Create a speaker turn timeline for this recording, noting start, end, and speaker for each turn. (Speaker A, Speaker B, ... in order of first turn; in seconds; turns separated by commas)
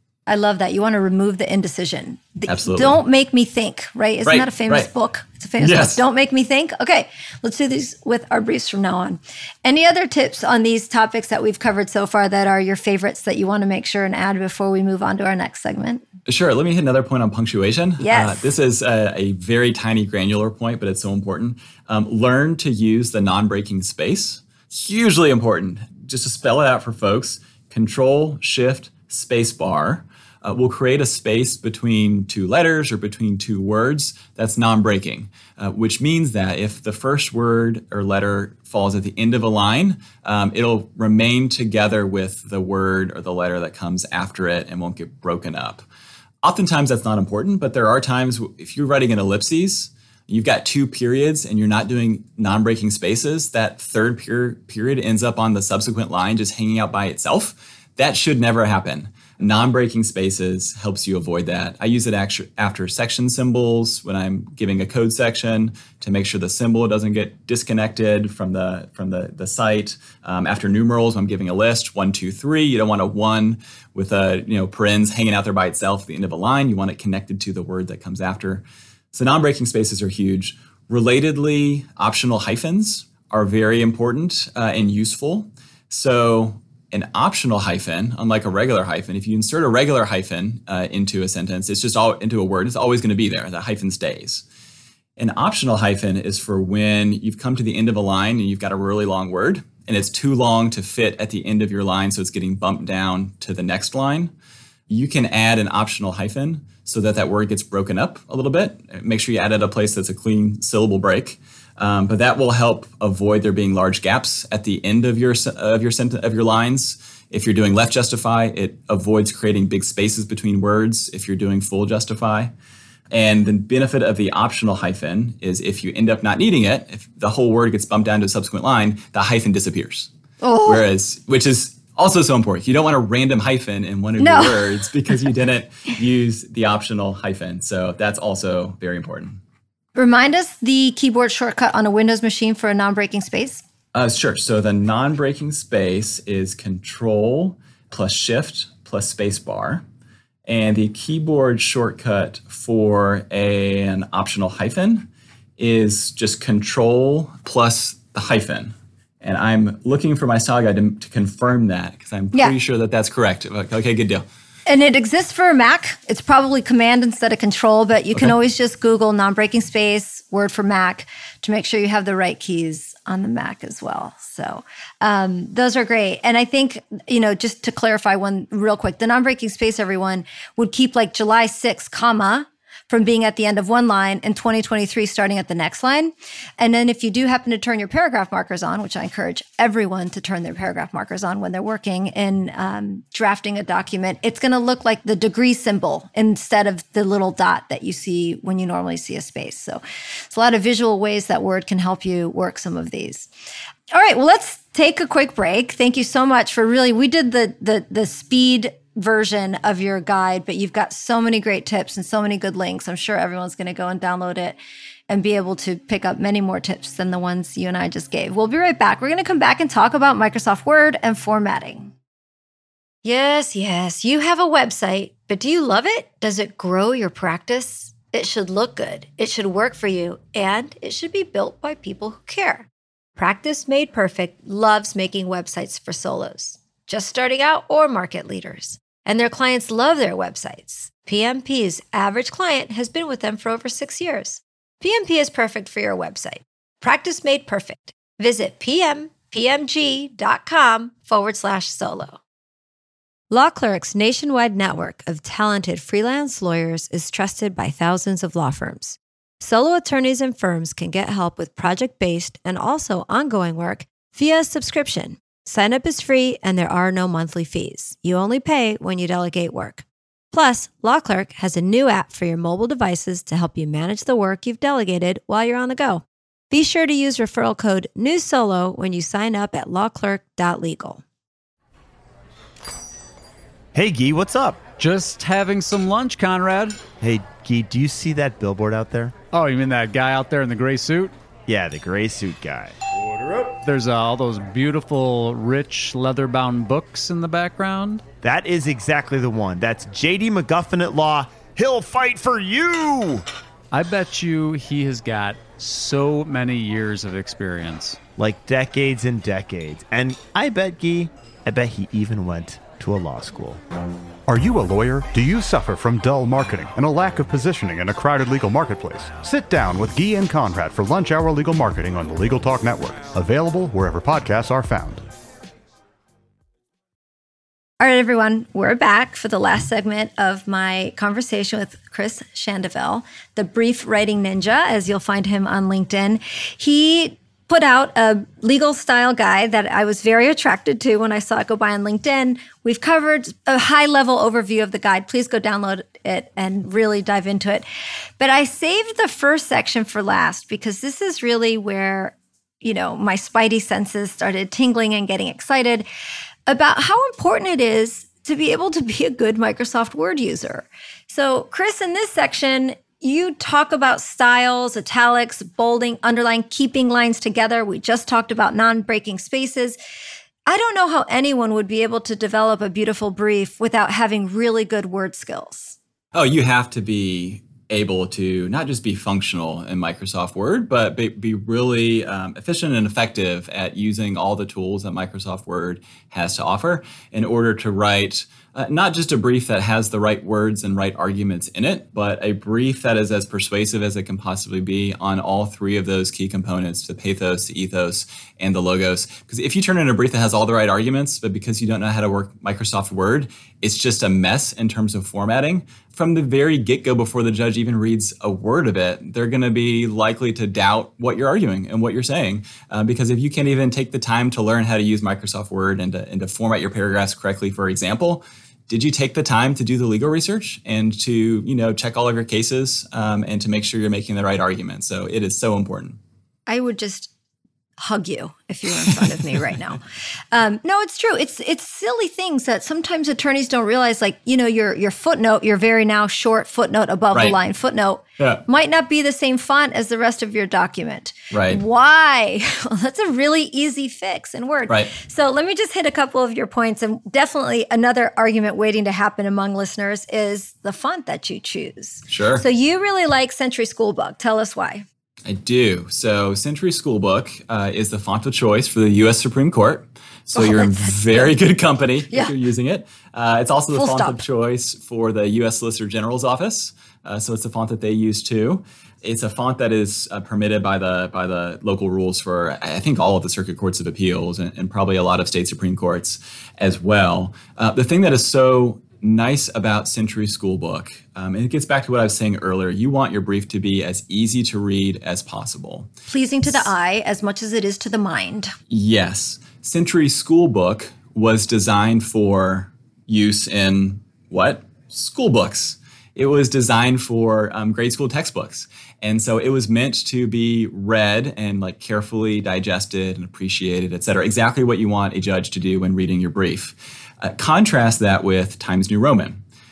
Speaker A: 0.3-16.0, Speaker B: 2.5-3.0, Speaker B: 4.2-4.9, Speaker B: 5.6-6.0, Speaker B: 16.3-45.9, Speaker A: 18.0-18.5, Speaker B: 46.4-94.5, Speaker B: 95.2-104.3, Speaker B: 104.9-122.5, Speaker B: 123.1-130.1, Speaker A: 130.4-130.8, Speaker B: 130.6-139.4, Speaker A: 134.2-134.8, Speaker A: 139.9-143.6, Speaker B: 143.9-149.8, Speaker B: 150.5-164.2, Speaker A: 164.7-203.3, Speaker A: 203.9-221.9, Speaker A: 223.0-252.2, Speaker A: 253.3-281.0, Speaker C: 283.7-284.6, Speaker D: 284.8-286.8, Speaker C: 287.0-289.2, Speaker D: 289.3-291.1, Speaker C: 291.5-292.8, Speaker D: 293.6-298.0, Speaker C: 298.2-303.2, Speaker D: 303.7-308.0, Speaker C: 308.2-313.6, Speaker E: 314.3-325.0, Speaker A: 327.8-347.6, Speaker A: 348.2-355.9, Speaker A: 356.5-369.8, Speaker A: 370.5-375.8, Speaker B: 376.1-426.0, Speaker A: 426.5-427.1, Speaker A: 427.8-429.8, Speaker A: 430.3-454.9, Speaker B: 441.3-441.6, Speaker B: 452.1-452.4, Speaker B: 455.2-485.9, Speaker A: 460.4-461.3, Speaker A: 463.8-464.2, Speaker A: 486.1-488.5, Speaker B: 488.7-509.4